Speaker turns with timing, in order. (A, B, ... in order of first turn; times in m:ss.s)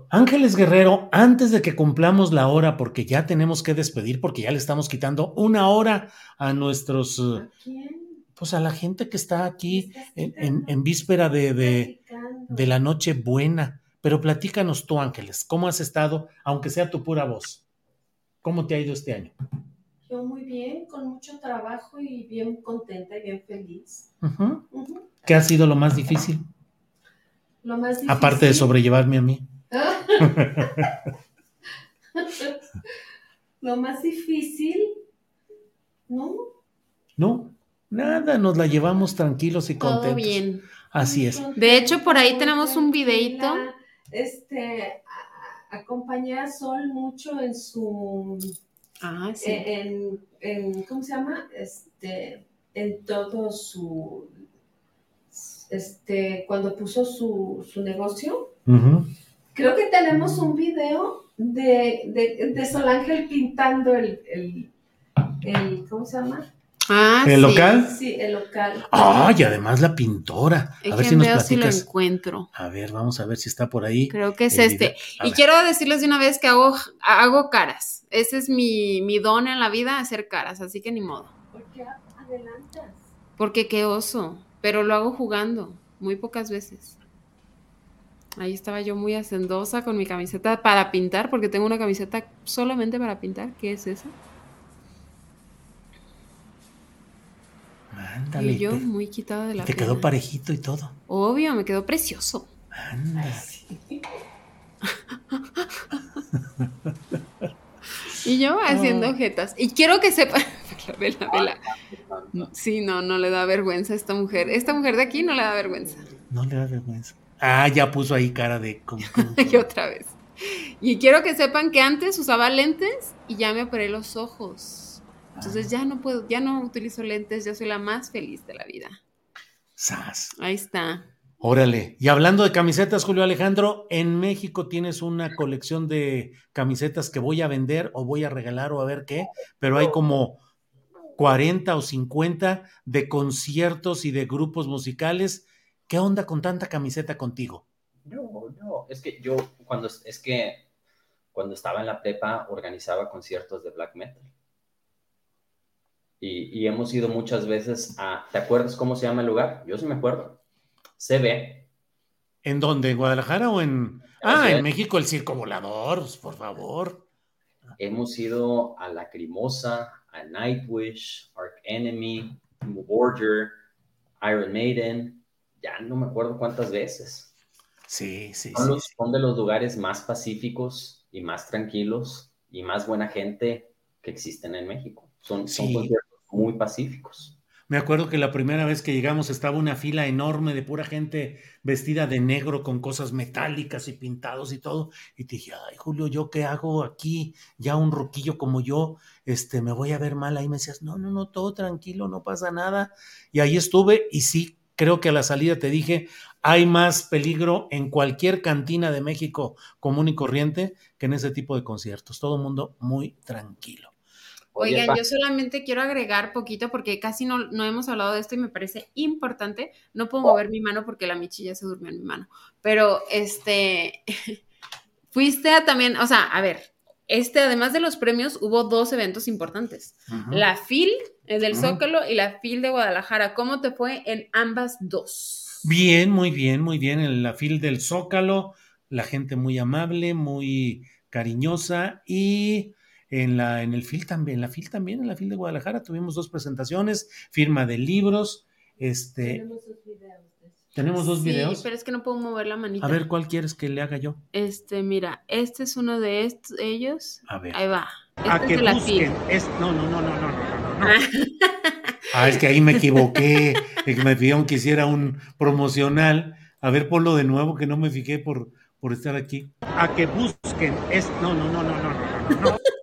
0:00.1-0:07.4 A
0:07.4-0:08.2 B
0:08.4-0:11.9 A
0:09.6-0:10.8 B
0:11.6-0:12.7 B
0:12.5-0:17.6 A
0:18.4-0:19.3 A
0:20.0-0:24.1 B
0:24.2-0:24.6 A
0:24.7-0:25.1 B
0:25.2-0:26.4 A
0:27.6-0:28.7 B
0:28.0-0:29.5 A
0:29.7-0:30.9 B
0:30.2-0:30.9 A
0:32.2-0:32.6 B
0:33.6-0:34.9 B
0:36.1-0:36.4 B
0:37.2-0:40.4 A
0:39.8-0:40.7 C
0:40.9-0:41.4 A
0:41.0-0:48.5 B
0:41.6-0:43.6 C
0:49.0-0:49.7 C
0:49.4-0:54.4 B
0:55.3-0:58.5 B
0:58.7-0:59.1 A
0:59.5-1:04.7 B
1:05.4-1:06.5 B
1:06.9-1:07.7 C
1:07.2-1:08.0 A
1:07.7-1:09.1 B
1:08.9-1:11.8 A
1:10.8-1:12.5 C
1:12.5-1:15.4 A
1:14.1-1:21.3 C
1:21.5-1:23.1 B
1:23.4-1:27.0 C
1:28.4-1:34.1 C
1:37.9-1:38.8 A
1:38.4-1:40.1 C
1:39.6-1:41.0 A
1:41.1-1:42.5 C
1:42.7-1:43.4 A
1:43.2-1:44.0 B
1:46.6-1:46.9 A
1:48.2-1:51.6 C
1:48.7-1:49.1 A
1:51.3-1:52.5 D
1:52.3-1:56.0 C
1:54.3-1:56.0 B
1:56.3-1:59.7 A
1:59.1-2:09.0 C
2:05.3-2:05.7 A
2:09.8-2:10.3 A
2:10.4-2:11.1 C
2:11.4-2:20.4 A
2:21.2-2:27.6 A
2:28.0-2:30.6 D
2:31.3-2:34.3 D
2:36.2-2:40.4 D
2:41.0-2:41.7 D
2:42.4-2:47.0 A
2:44.2-2:44.7 D
2:47.8-2:53.6 D
2:54.2-2:57.3 D
2:57.9-2:58.9 A
2:58.5-3:07.3 D
3:05.5-3:05.9 A
3:07.7-3:33.9 A
3:34.5-3:35.0 D
3:34.6-3:44.4 C
3:45.1-3:55.7 C
3:50.1-3:50.4 A
3:51.5-3:51.8 A
3:55.6-4:09.4 A
4:09.2-4:10.7 B
4:10.7-4:11.6 A
4:10.9-4:13.0 C
4:12.8-4:14.2 A
4:14.3-4:19.1 C
4:17.3-4:17.6 A
4:18.2-4:21.0 A
4:20.8-4:22.0 C
4:22.1-4:32.6 A
4:22.8-4:23.2 C